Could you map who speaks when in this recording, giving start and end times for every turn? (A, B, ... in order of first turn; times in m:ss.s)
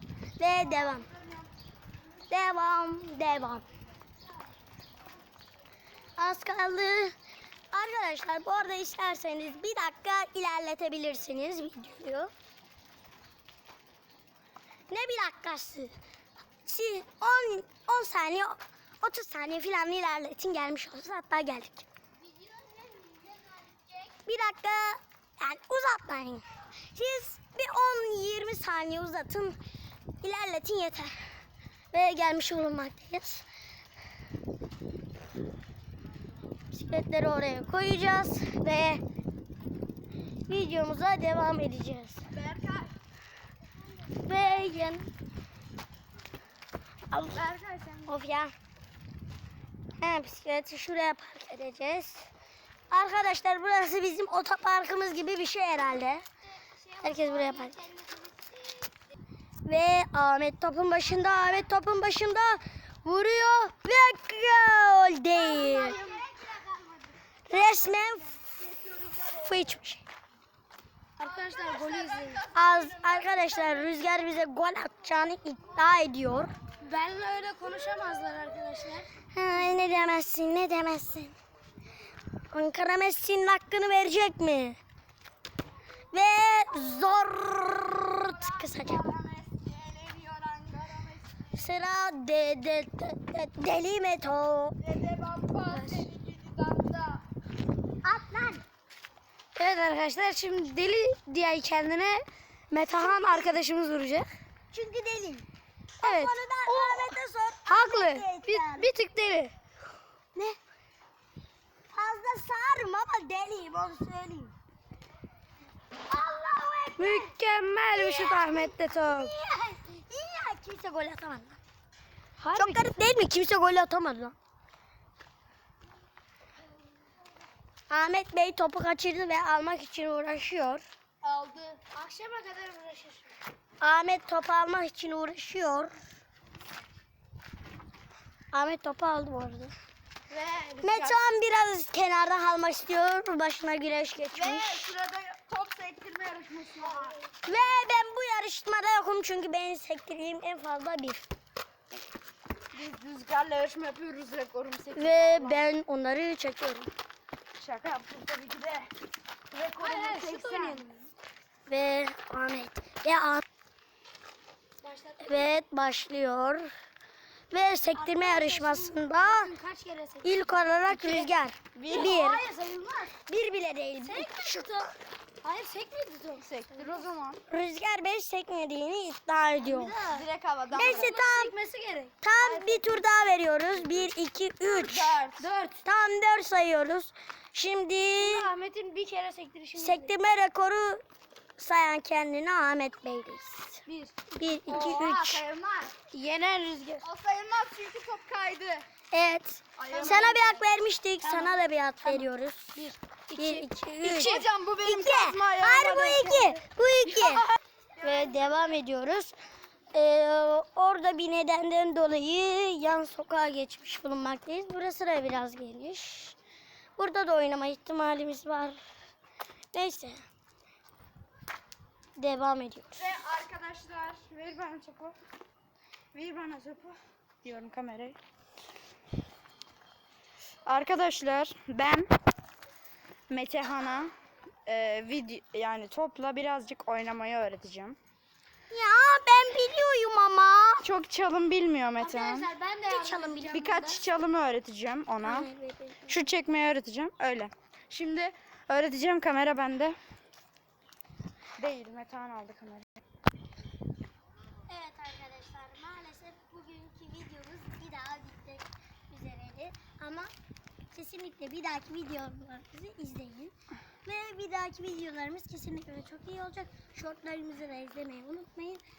0:00.4-0:01.1 A
0:02.3-0:03.6 A
0:06.2-0:07.2 A
0:07.7-0:12.3 A
0:14.9-0:15.9 A
0:16.7-0:21.9 A
0:22.2-0:24.0 B
0:24.2-0:29.6 A
0:30.2-0:31.3 A
0:31.9-0:33.5 A
0:36.7-0:39.0 A
0:40.5-0:42.2 A
0:42.3-0:42.9 C
0:44.2-0:45.1 A
0:47.1-0:47.4 A
0:47.3-0:48.1 C
0:48.1-0:48.5 A
0:50.0-0:52.3 A
0:52.9-0:56.2 A
0:56.8-0:58.9 B
0:57.0-0:57.9 A
0:59.6-1:06.0 A
1:05.3-1:07.1 B
1:07.5-1:08.4 A
1:08.5-1:09.2 C
1:09.2-1:10.0 A
1:11.2-1:12.5 B
1:11.3-1:13.6 C
1:12.5-1:16.5 A
1:16.8-1:19.1 B
1:19.3-1:21.4 A
1:22.5-1:24.8 A
1:26.1-1:29.1 A
1:28.3-1:31.6 C
1:31.5-1:34.8 A
1:34.8-1:37.2 C
1:35.7-1:36.1 B
1:38.0-1:38.6 A
1:39.6-1:44.3 B
1:43.0-1:43.6 A
1:44.7-1:45.4 A
1:46.0-1:47.2 B
1:46.0-1:48.9 A
1:47.7-1:49.5 B
1:51.9-1:54.5 A
1:56.1-1:57.3 A
1:57.0-1:59.3 B
1:57.9-2:01.6 A
2:02.4-2:02.9 B
2:02.5-2:04.4 A
2:07.9-2:10.8 A
2:11.2-2:13.3 B
2:13.8-2:15.9 A
2:18.5-2:19.7 A
2:20.3-2:21.2 C
2:20.8-2:24.9 A
2:24.3-2:27.2 C
2:27.4-2:31.2 A
2:32.7-2:35.6 C
2:35.0-2:36.9 A
2:37.6-2:38.9 C
2:39.5-2:40.8 C
2:39.8-2:41.1 B
2:41.7-2:43.4 A
2:44.8-2:45.5 B
2:45.2-2:46.7 A
2:47.5-2:49.5 A
2:48.0-2:51.3 B
2:50.2-2:52.4 A
2:51.8-2:52.2 C
2:51.9-2:53.2 B
2:53.3-2:54.7 A
2:54.0-2:57.0 B
2:56.4-2:57.4 C
2:57.5-3:00.0 A
2:59.6-3:03.0 B
3:00.0-3:01.2 C
3:00.7-3:01.5 A
3:02.2-3:05.1 A
3:04.6-3:05.5 C
3:05.4-3:05.8 B
3:05.8-3:08.5 A
3:08.2-3:10.1 B
3:09.8-3:11.0 A
3:11.6-3:15.4 A
3:13.9-3:14.2 B
3:14.7-3:16.0 C
3:16.1-3:17.0 B
3:16.2-3:16.8 A
3:17.0-3:18.9 C
3:19.1-3:29.4 A
3:19.8-3:20.6 C
3:19.9-3:20.4 B
3:21.2-3:23.6 B
3:24.0-3:26.6 C
3:29.9-3:36.4 A
3:37.0-3:38.8 A
3:39.7-3:40.2 A
3:42.2-3:43.0 A
3:43.0-3:45.2 C
3:46.1-3:48.2 C
3:50.7-3:52.1 C
3:53.3-3:54.1 C
3:54.7-3:58.0 C
3:58.7-4:00.9 A
4:00.8-4:02.5 C
4:02.0-4:04.0 B
4:02.9-4:03.6 A
4:03.5-4:05.5 C
4:05.2-4:06.3 A
4:06.1-4:10.0 C
4:11.6-4:12.9 C
4:14.7-4:20.3 A
4:20.9-4:23.5 A
4:24.0-4:28.8 A